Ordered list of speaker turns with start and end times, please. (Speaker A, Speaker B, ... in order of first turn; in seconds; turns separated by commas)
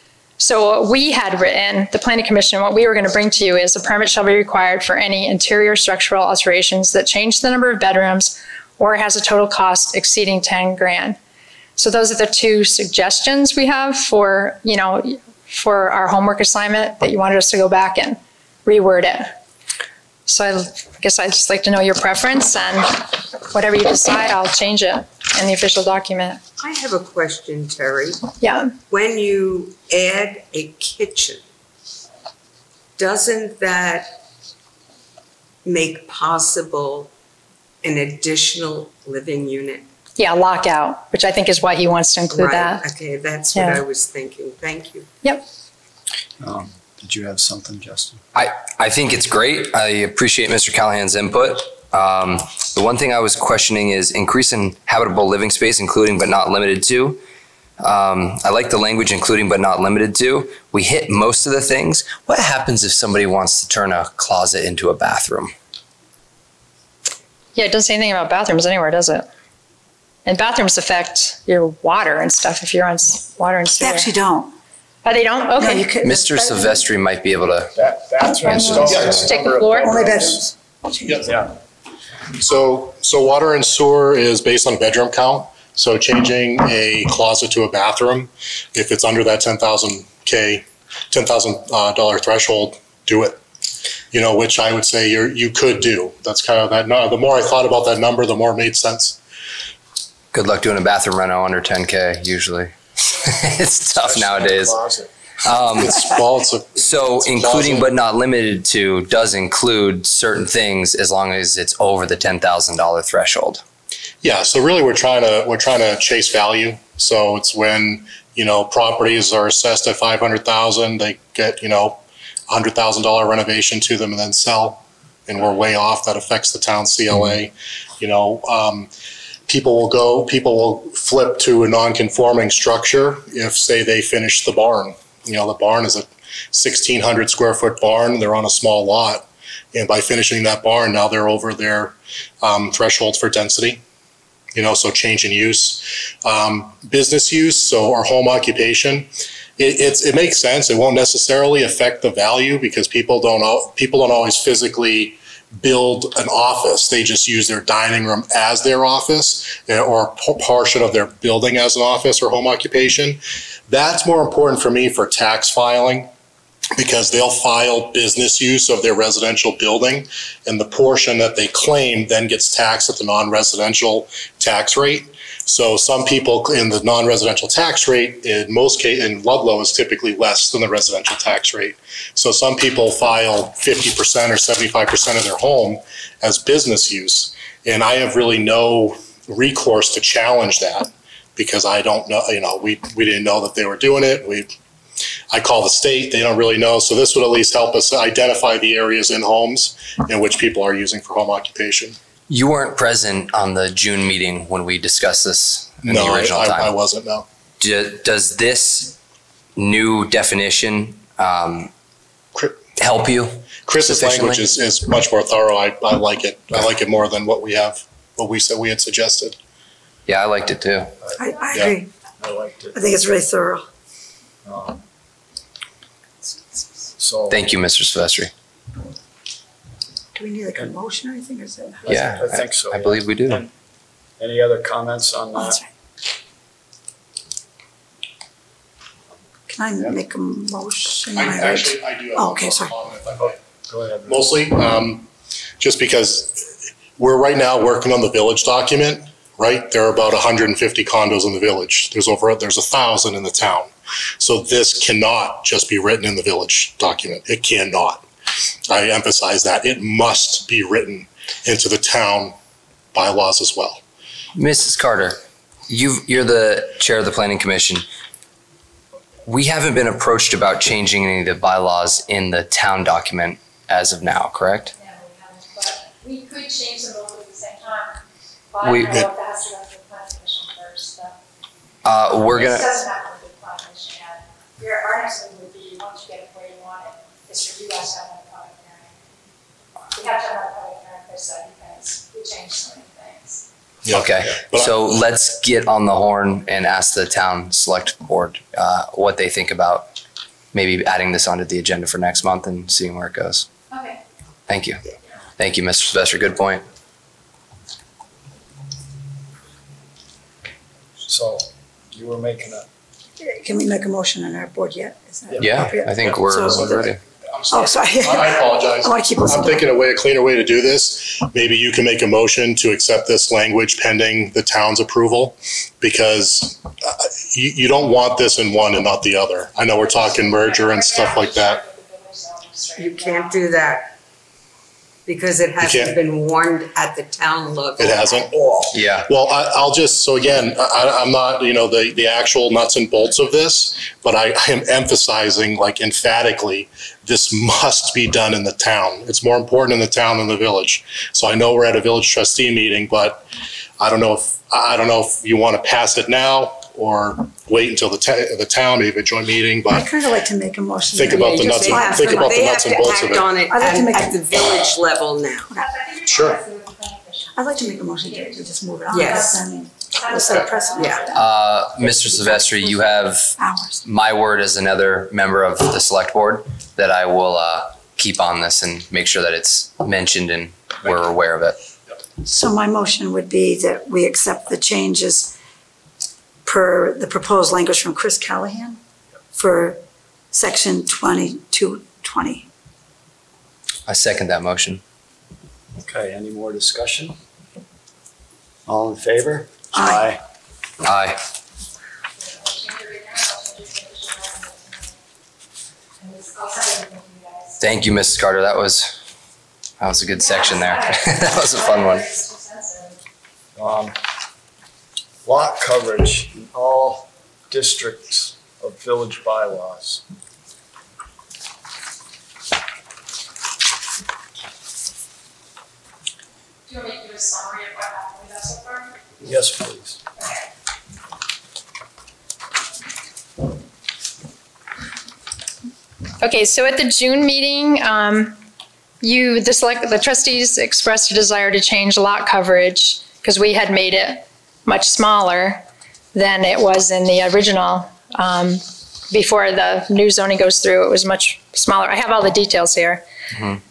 Speaker A: 0.4-11.2, Speaker A: 11.8-19.3, Speaker A: 20.3-26.4, Speaker B: 26.6-28.2, Speaker A: 28.4-28.7, Speaker B: 28.9-31.4, Speaker B: 33.0-34.2, Speaker B: 35.6-37.1, Speaker B: 37.8-39.9, Speaker A: 40.2-42.8, Speaker B: 42.3-45.1, Speaker A: 43.5-43.8, Speaker C: 46.4-48.2, Speaker D: 48.3-57.2, Speaker D: 57.8-65.5, Speaker A: 67.5-69.3, Speaker A: 70.2-74.1, Speaker E: 73.8-74.5, Speaker A: 75.0-75.9, Speaker E: 75.6-76.7, Speaker D: 76.0-77.8, Speaker C: 77.7-80.4, Speaker A: 78.4-80.0, Speaker E: 78.5-79.1, Speaker F: 78.9-79.3, Speaker E: 79.7-81.2, Speaker C: 81.2-81.5, Speaker F: 82.4-93.4, Speaker F: 94.1-99.2, Speaker D: 100.3-104.8, Speaker C: 103.8-105.1, Speaker D: 105.4-106.1, Speaker F: 105.8-107.9, Speaker D: 106.8-113.6, Speaker F: 114.2-128.9, Speaker F: 129.5-143.8, Speaker F: 144.5-166.1, Speaker F: 166.8-194.5, Speaker F: 195.3-202.0, Speaker D: 202.3-206.7, Speaker F: 205.8-207.3, Speaker D: 207.6-209.0, Speaker D: 209.6-211.7, Speaker F: 212.3-212.6, Speaker D: 212.8-214.5, Speaker F: 213.7-219.4, Speaker D: 220.1-220.9, Speaker E: 221.2-221.9, Speaker C: 222.2-222.8, Speaker E: 222.7-223.7, Speaker C: 224.4-224.8, Speaker C: 227.0-227.4, Speaker D: 227.3-228.3, Speaker E: 230.1-231.9, Speaker C: 231.8-233.5, Speaker D: 231.9-233.4, Speaker C: 234.2-235.6, Speaker E: 235.3-235.7, Speaker E: 239.5-242.7, Speaker F: 241.2-243.4, Speaker C: 243.2-244.3, Speaker F: 244.1-245.1, Speaker F: 245.6-258.1, Speaker F: 258.7-262.4, Speaker F: 262.9-263.8, Speaker D: 264.3-267.9, Speaker D: 269.2-274.7, Speaker A: 274.7-278.0, Speaker A: 278.5-281.1, Speaker D: 278.6-279.0, Speaker D: 281.8-282.7, Speaker A: 282.3-289.0, Speaker A: 289.9-293.4, Speaker F: 293.8-294.8, Speaker D: 293.9-299.9, Speaker D: 300.5-303.5, Speaker A: 303.7-304.0, Speaker D: 304.5-304.8, Speaker D: 305.4-306.6, Speaker C: 311.0-312.7, Speaker E: 313.2-316.9, Speaker C: 315.3-315.7, Speaker D: 315.4-317.0, Speaker F: 316.4-331.6, Speaker E: 317.5-319.7, Speaker A: 329.8-333.5, Speaker B: 332.8-333.9, Speaker B: 335.1-338.6, Speaker F: 335.6-335.9, Speaker F: 337.8-338.3, Speaker D: 338.7-339.1, Speaker F: 339.1-353.2, Speaker F: 353.8-359.9, Speaker E: 359.7-364.2, Speaker F: 360.9-363.4, Speaker B: 361.0-365.5, Speaker A: 365.6-371.2, Speaker F: 366.1-366.4, Speaker E: 367.3-371.1, Speaker B: 368.9-369.4, Speaker B: 370.8-371.1, Speaker D: 371.1-381.6, Speaker E: 372.3-373.8, Speaker E: 382.2-385.3, Speaker E: 386.4-388.8, Speaker E: 389.3-389.8, Speaker E: 390.3-392.5, Speaker D: 393.9-394.8, Speaker C: 395.8-397.2, Speaker C: 398.6-400.2, Speaker E: 399.7-400.0, Speaker D: 400.8-401.2, Speaker A: 402.2-404.9, Speaker A: 406.0-407.6, Speaker D: 407.6-409.0, Speaker D: 409.8-412.0, Speaker A: 410.2-413.0, Speaker C: 413.6-413.9, Speaker C: 415.2-420.0, Speaker A: 426.7-429.0, Speaker C: 429.2-430.0, Speaker A: 430.2-430.5, Speaker A: 436.2-438.4, Speaker A: 439.0-453.0, Speaker D: 453.3-453.6